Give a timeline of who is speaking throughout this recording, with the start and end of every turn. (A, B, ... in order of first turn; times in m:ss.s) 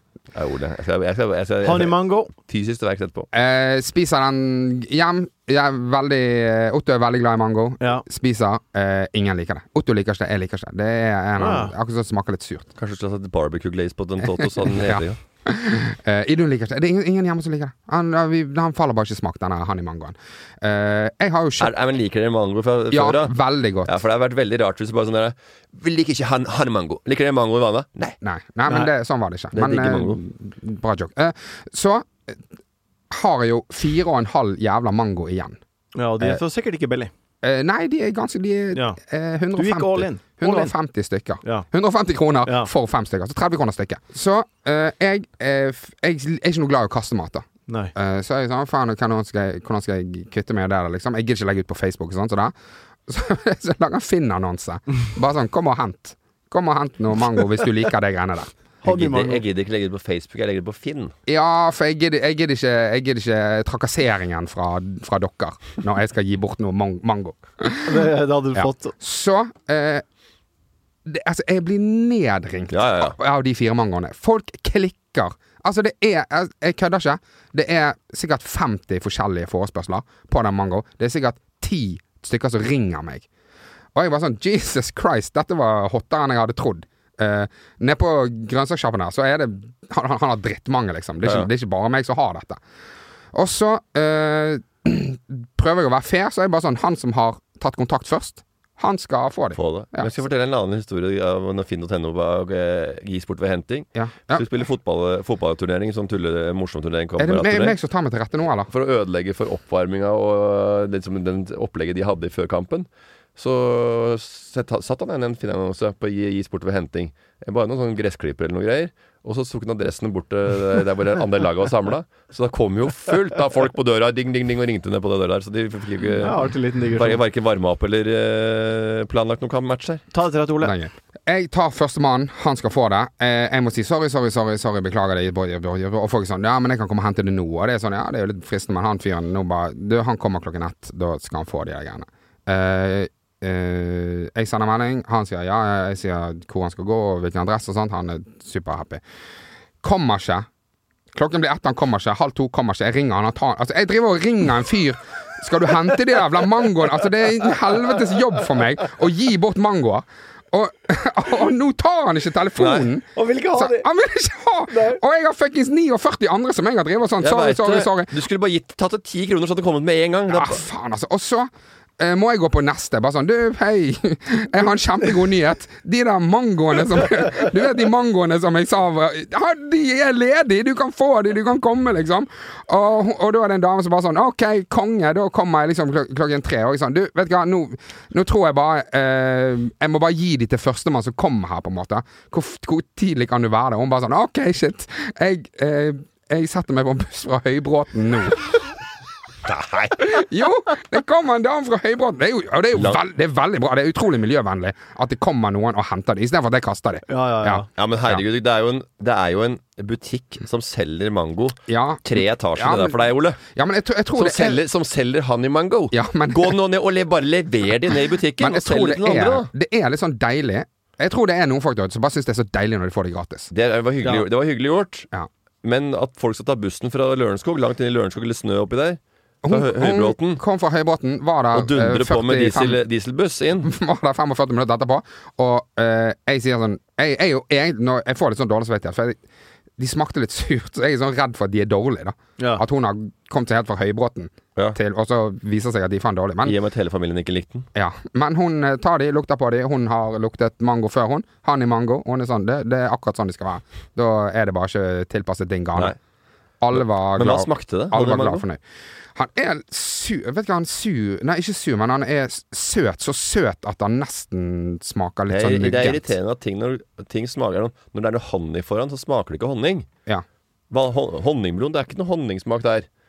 0:00.3-0:03.3 A
0:01.6-0:02.3 B
0:03.3-0:12.7 C
0:07.8-0:08.0 B
0:11.4-0:11.7 B
0:12.8-0:15.2 A
0:14.4-0:21.7 C
0:21.6-0:28.2 A
0:22.9-0:24.0 C
0:28.2-0:32.4 C
0:29.5-0:30.2 A
0:33.1-0:35.6 C
0:35.9-0:37.1 B
0:37.4-0:52.5 C
0:38.7-0:39.0 B
0:39.5-0:40.7 B
0:42.4-0:42.7 B
0:47.7-0:47.9 B
0:53.1-0:58.5 C
0:58.8-0:59.4 B
0:58.8-1:01.1 A
1:01.3-1:08.0 C
1:07.8-1:08.9 B
1:08.6-1:10.0 C
1:11.0-1:23.3 C
1:12.7-1:13.2 A
1:23.9-1:32.6 C
1:33.3-1:40.1 C
1:39.6-1:47.8 A
1:43.9-1:44.4 C
1:47.2-1:48.7 C
1:48.7-2:10.0 A
2:06.2-2:07.2 B
2:10.1-2:10.8 B
2:10.6-2:29.0 C
2:29.8-2:30.5 C
2:31.1-2:48.1 C
2:42.6-2:42.9 A
2:43.1-2:43.9 B
2:44.7-2:45.0 B
2:47.2-2:50.6 A
2:50.3-3:18.6 C
3:19.4-3:20.1 A
3:20.0-3:28.2 C
3:22.7-3:23.0 A
3:27.1-3:27.7 B
3:27.8-3:33.4 A
3:31.7-3:34.6 C
3:34.2-3:39.5 A
3:35.9-3:36.6 C
3:38.4-3:43.5 C
3:43.5-3:45.1 A
3:45.6-3:50.4 A
3:49.4-3:52.8 C
3:51.5-3:53.7 A
3:53.6-3:59.2 C
3:59.8-4:06.6 C
4:02.4-4:02.6 B
4:06.4-4:07.7 A
4:07.7-4:15.9 C
4:16.6-4:18.6 C
4:16.8-4:18.4 A
4:19.1-4:26.1 C
4:25.3-4:29.9 A
4:30.7-4:32.9 A